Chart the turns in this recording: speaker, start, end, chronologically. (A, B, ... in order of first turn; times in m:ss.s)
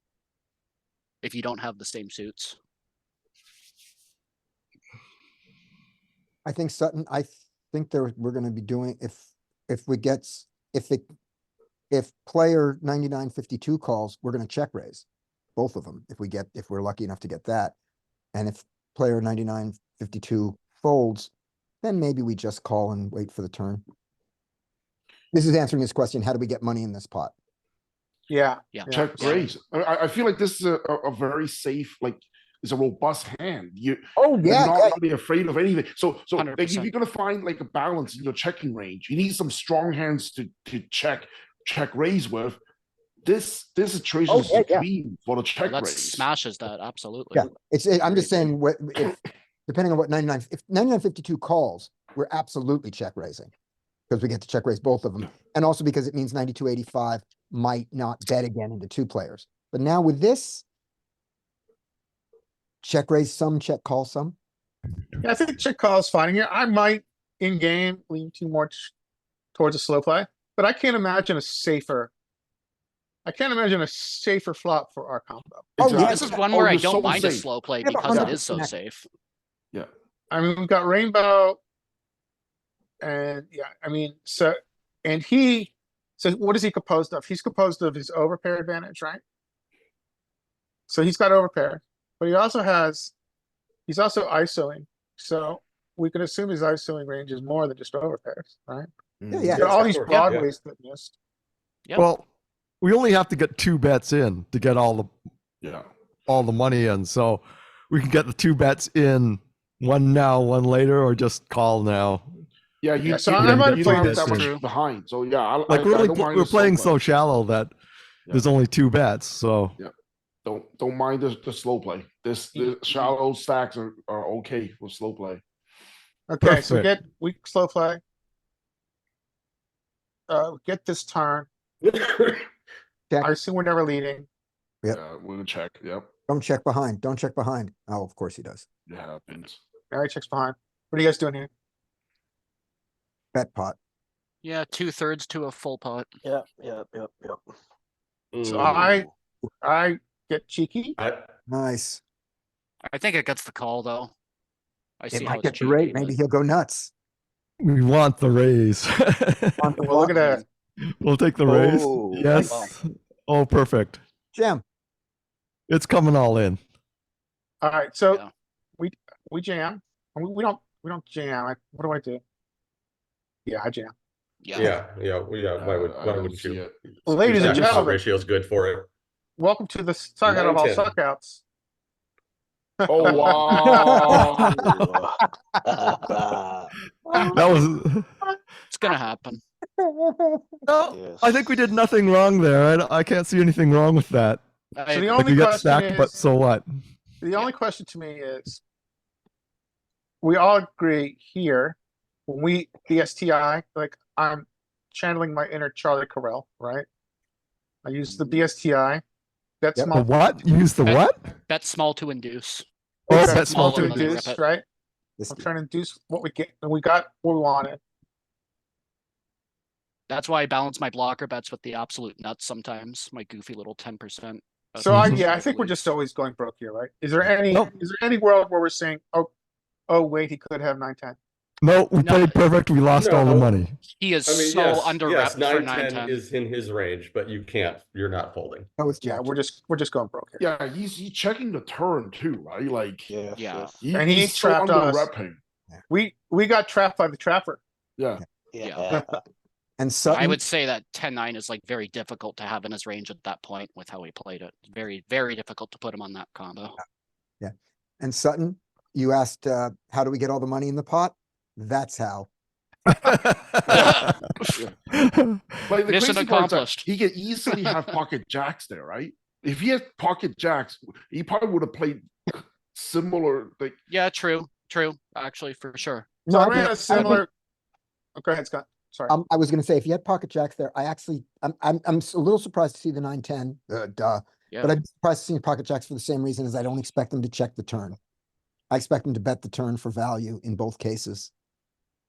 0:01.2-0:02.6 A
0:06.4-0:11.0 B
0:11.9-0:15.0 B
0:15.6-0:17.7 B
0:18.3-0:21.3 B
0:21.8-0:23.8 B
0:25.3-0:27.3 B
0:28.3-0:29.4 C
0:28.7-0:29.4 A
0:28.9-0:42.6 D
0:34.2-0:35.0 B
0:36.4-0:36.9 A
0:43.2-0:46.2 D
0:44.3-0:44.8 B
0:45.7-0:47.5 A
0:47.3-0:53.5 B
0:48.0-0:48.4 A
0:54.1-1:00.6 B
1:02.8-1:04.4 B
1:05.2-1:08.9 C
1:09.6-1:12.1 C
1:13.2-1:16.1 C
1:15.8-1:16.4 B
1:15.8-1:17.5 D
1:16.0-1:19.1 A
1:17.8-1:18.7 B
1:20.3-1:21.6 C
1:23.0-1:29.2 C
1:30.9-1:33.1 C
1:33.9-1:38.9 C
1:39.2-1:39.6 D
1:39.3-1:40.1 B
1:39.5-1:41.1 C
1:39.6-1:40.5 E
1:41.9-1:42.2 F
1:42.8-1:45.1 F
1:45.6-1:45.9 D
1:46.3-1:52.2 F
1:52.8-1:57.0 D
1:53.0-1:54.5 C
1:53.4-1:54.5 F
1:54.3-1:54.6 A
1:55.7-1:57.7 F
1:58.3-1:59.8 F
2:00.4-2:05.4 D
2:02.5-2:03.1 C
2:06.3-2:08.0 C
2:06.4-2:07.0 F
2:10.3-2:11.5 C
2:11.8-2:12.5 E
2:13.2-2:14.3 C
2:14.9-2:16.1 D
2:16.3-2:18.6 B
2:18.9-2:19.6 D
2:19.9-2:21.5 C
2:23.3-2:23.8 B
2:24.4-2:26.1 A
2:26.2-2:27.4 G
2:28.3-2:28.8 E
2:28.4-2:29.1 C
2:28.8-2:29.0 G
2:29.6-2:31.0 C
2:31.0-2:31.2 E
2:31.5-2:32.0 B
2:32.8-2:34.1 A
2:35.0-2:36.1 A
2:35.1-2:36.9 B
2:37.6-2:39.7 F
2:39.6-2:40.1 B
2:39.8-2:40.4 C
2:40.1-2:40.4 A
2:41.0-2:44.0 F
2:41.4-2:42.5 G
2:42.3-2:42.7 A
2:44.3-2:44.6 B
2:45.7-2:46.6 F
2:47.6-2:48.2 C
2:48.8-2:52.2 C
2:53.4-2:53.9 C
2:54.4-2:54.8 A
2:54.5-2:56.7 E
2:55.6-2:57.9 D
2:57.0-2:58.0 C
2:57.2-2:58.9 E
2:59.4-3:01.4 C
3:00.2-3:00.9 E
3:02.8-3:04.3 C
3:02.9-3:04.6 D
3:03.8-3:04.2 B
3:04.5-3:06.7 G
3:07.1-3:07.4 B
3:07.1-3:08.1 F
3:07.2-3:07.5 C
3:08.7-3:09.4 A
3:09.8-3:10.8 B
3:10.9-3:11.3 G
3:11.2-3:14.4 F
3:14.7-3:15.2 A
3:14.9-3:16.2 C
3:15.1-3:16.6 F
3:17.2-3:18.6 C
3:20.2-3:21.8 C
3:22.3-3:26.8 C
3:27.8-3:29.0 C
3:29.6-3:30.3 C
3:29.9-3:31.2 F
3:30.8-3:34.4 A
3:33.1-3:34.2 F
3:33.1-3:34.6 C
3:35.2-3:35.5 B
3:35.3-3:37.8 C
3:40.1-3:45.8 A
3:44.8-3:49.3 C
3:44.9-3:45.2 F
3:49.9-3:51.2 C
3:51.6-3:53.8 F
3:52.0-3:52.4 A
3:52.9-3:53.6 E
3:53.9-3:56.2 A
3:54.2-3:58.7 E
3:58.8-3:59.4 B
3:59.1-4:00.4 C
4:00.4-4:03.1 D
4:03.1-4:03.8 G
4:03.3-4:03.8 A
4:03.8-4:05.4 D
4:03.9-4:05.1 C
4:05.9-4:07.6 C
4:08.0-4:08.2 D
4:08.5-4:09.2 G
4:08.6-4:09.0 A
4:09.8-4:10.4 B
4:10.0-4:16.8 A
4:17.4-4:22.3 B
4:22.9-4:25.6 F
4:23.7-4:24.1 A
4:25.7-4:33.7 D
4:25.8-4:26.8 A
4:33.9-4:36.1 A
4:36.3-4:37.2 B
4:36.3-4:37.3 C
4:38.2-4:39.1 C
4:39.1-4:48.0 B
4:48.7-4:51.3 B